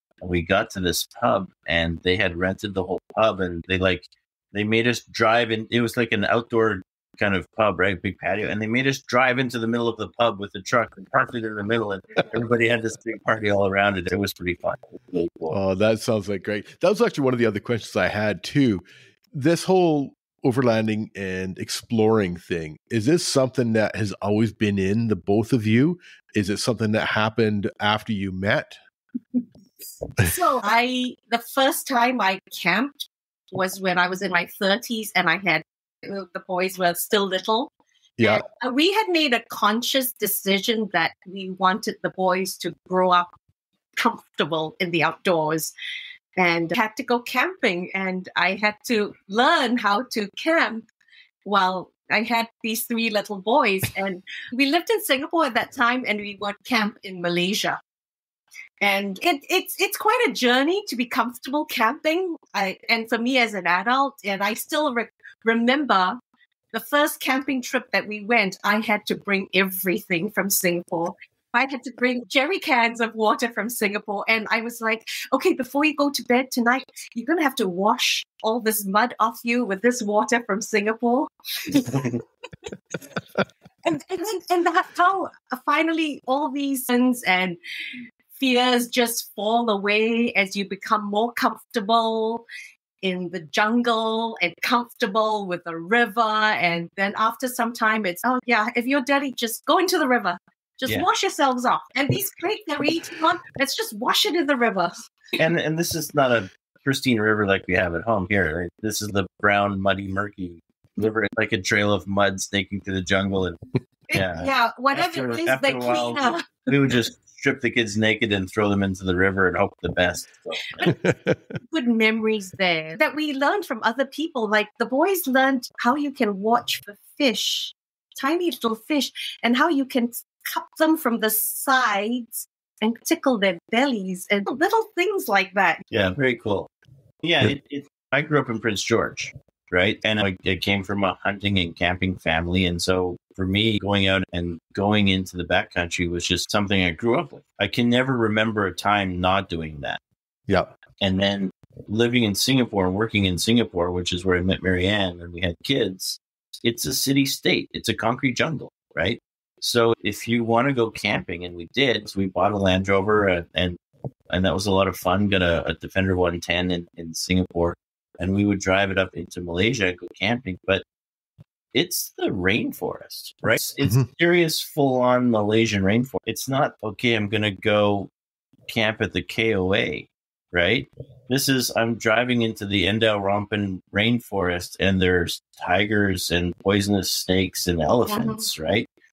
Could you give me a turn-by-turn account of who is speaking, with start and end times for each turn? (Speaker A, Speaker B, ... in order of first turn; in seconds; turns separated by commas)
Speaker A: 0.2-15.6, Speaker B: 15.5-28.8, Speaker C: 30.2-37.7, Speaker C: 38.2-43.3, Speaker C: 44.0-45.7, Speaker C: 46.4-50.9, Speaker C: 51.5-57.8, Speaker C: 58.8-66.2, Speaker C: 66.7-82.1, Speaker A: 81.9-82.2, Speaker C: 83.8-87.6, Speaker C: 88.3-92.5, Speaker C: 93.0-105.1, Speaker A: 105.4-113.6, Speaker C: 114.1-116.7, Speaker A: 114.1-120.8, Speaker C: 120.7-121.1, Speaker B: 120.9-121.4, Speaker C: 121.7-135.8, Speaker A: 135.9-136.7, Speaker A: 137.2-150.0, Speaker A: 151.0-163.8, Speaker A: 164.3-170.8, Speaker A: 171.7-178.1, Speaker A: 178.7-188.9, Speaker C: 188.1-188.5